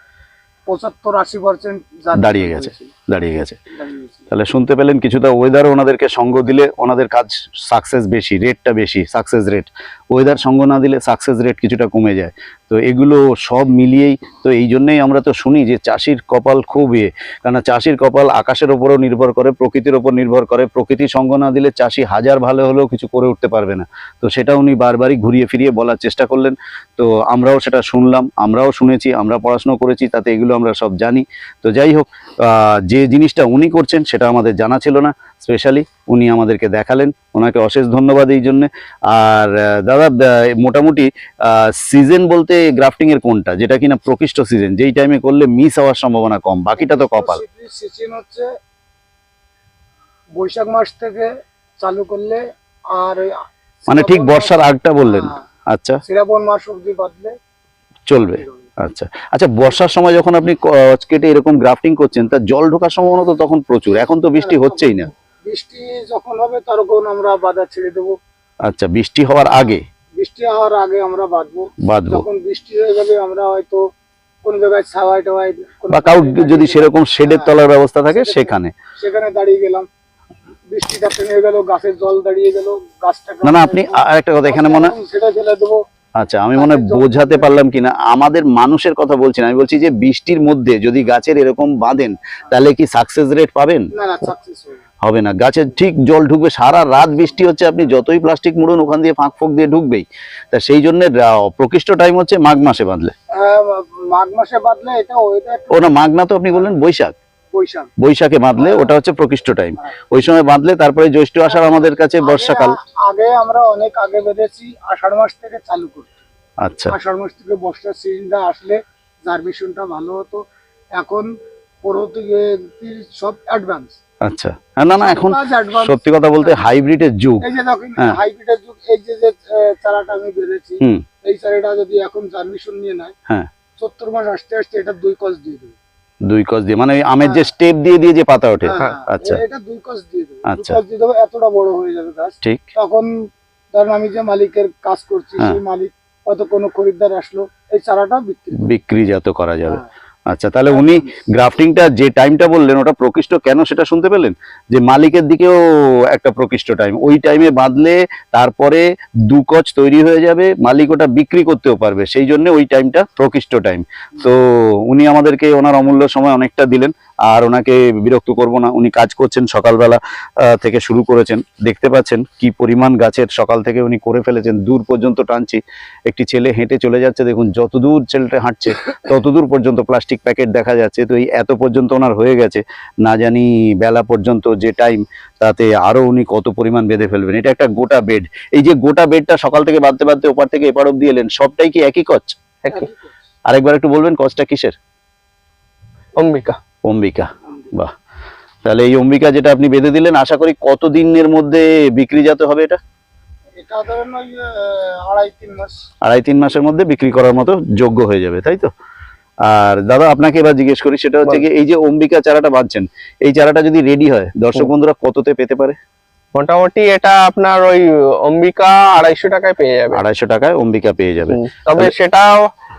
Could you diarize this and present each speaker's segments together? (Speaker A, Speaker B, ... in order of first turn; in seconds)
Speaker A: 0.7-2.9, 3.7-4.3, 46.8-48.5, 50.4-55.4, 56.0-57.4, 58.2-58.6, 64.4-68.2, 70.2-73.8, 74.4-77.5, 78.1-79.9, 80.7-85.8, 86.6-87.5, 93.9-94.8, 103.3-105.9, 107.5-107.9, 108.6-108.9, 112.2-116.2, 116.9-120.4, 121.0-121.3, 121.8-124.0, 125.0-126.6, 127.4-133.2, 133.8-135.8, 138.6-143.1, 143.7-148.7, 203.6-205.8
Speaker B: 2.1-3.6, 4.3-47.4, 53.9-56.0, 58.1-65.1, 68.6-69.8, 71.8-72.2, 75.9-78.7, 83.4-84.9, 86.2-93.9, 95.0-103.1, 105.7-107.1, 108.0-112.8, 116.6-116.9, 124.2-127.5, 136.3-139.4, 140.5-140.8, 148.6-192.4, 193.5-194.8, 196.8-197.9, 198.6-202.8, 206.0-208.7, 209.4-215.8, 219.9-221.9
Speaker C: 192.6-192.9, 196.2-196.6, 216.3-220.0, 221.3-222.5